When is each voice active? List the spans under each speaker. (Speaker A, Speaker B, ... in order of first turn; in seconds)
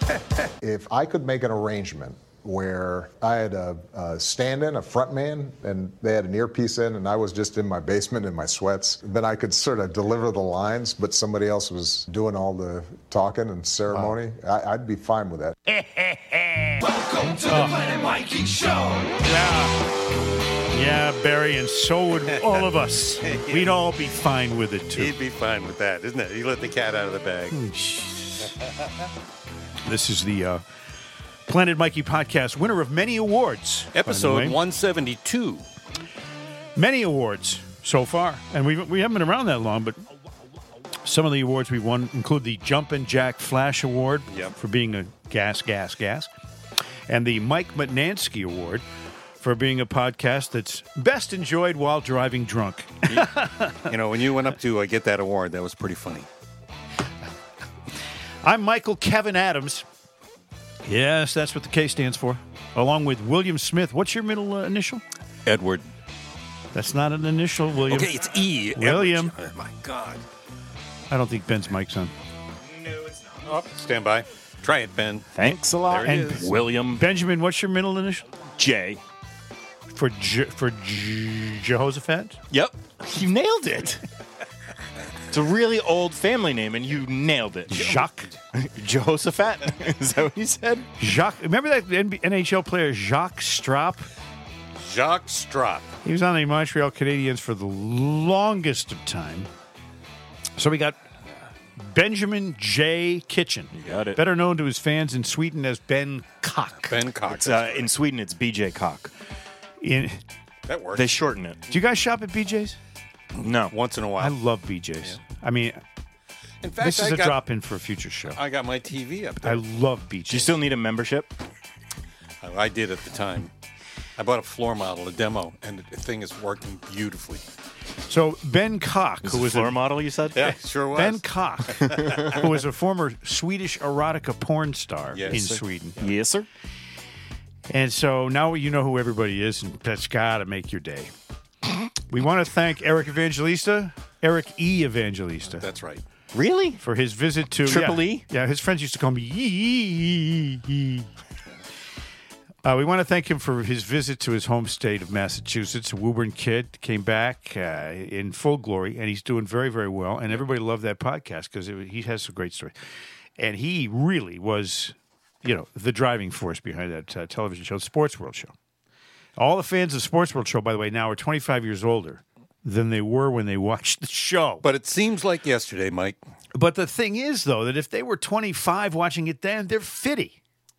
Speaker A: 0.6-15.6
Speaker B: 15.7-16.8, 17.4-17.8, 19.2-19.8, 20.7-25.1, 27.5-28.6, 29.8-30.6, 31.5-34.6, 36.8-40.0, 41.0-46.3, 47.1-48.8, 49.4-53.9, 58.4-59.9, 60.8-65.0, 66.7-69.3, 71.1-72.1, 76.0-78.3, 79.9-82.4, 87.7-88.3, 91.0-94.1, 96.0-99.5, 100.6-101.0, 101.8-107.0, 109.8-110.2, 111.7-112.8, 114.2-115.8, 116.8-118.4, 119.4-120.6, 128.1-136.1, 137.7-141.1, 142.1-145.7, 146.8-151.1, 152.6-162.7, 163.4-168.5, 169.4-174.7, 176.5-180.4
Speaker C: 16.8-19.2
Speaker D: 23.2-23.7, 24.9-27.6, 33.9-35.6, 44.3-44.5, 53.1-56.3, 65.4-65.9, 67.9-70.2, 73.4-76.6, 87.7-88.3, 94.8-95.9, 106.9-107.9, 110.7-111.2, 113.4-114.3, 116.6-117.4, 118.3-119.6, 122.4-123.5, 124.2-127.4, 130.3-132.4, 135.1-135.4, 145.5-146.0, 174.6-176.2
Speaker E: 72.6-73.6, 75.3-77.1, 78.6-79.0, 82.5-84.0, 85.3-88.0, 88.5-90.9, 103.7-104.2, 107.3-109.1, 110.9-111.6, 113.4-113.7, 120.3-121.3, 129.2-130.5, 135.3-136.5, 146.3-146.8, 147.6-148.2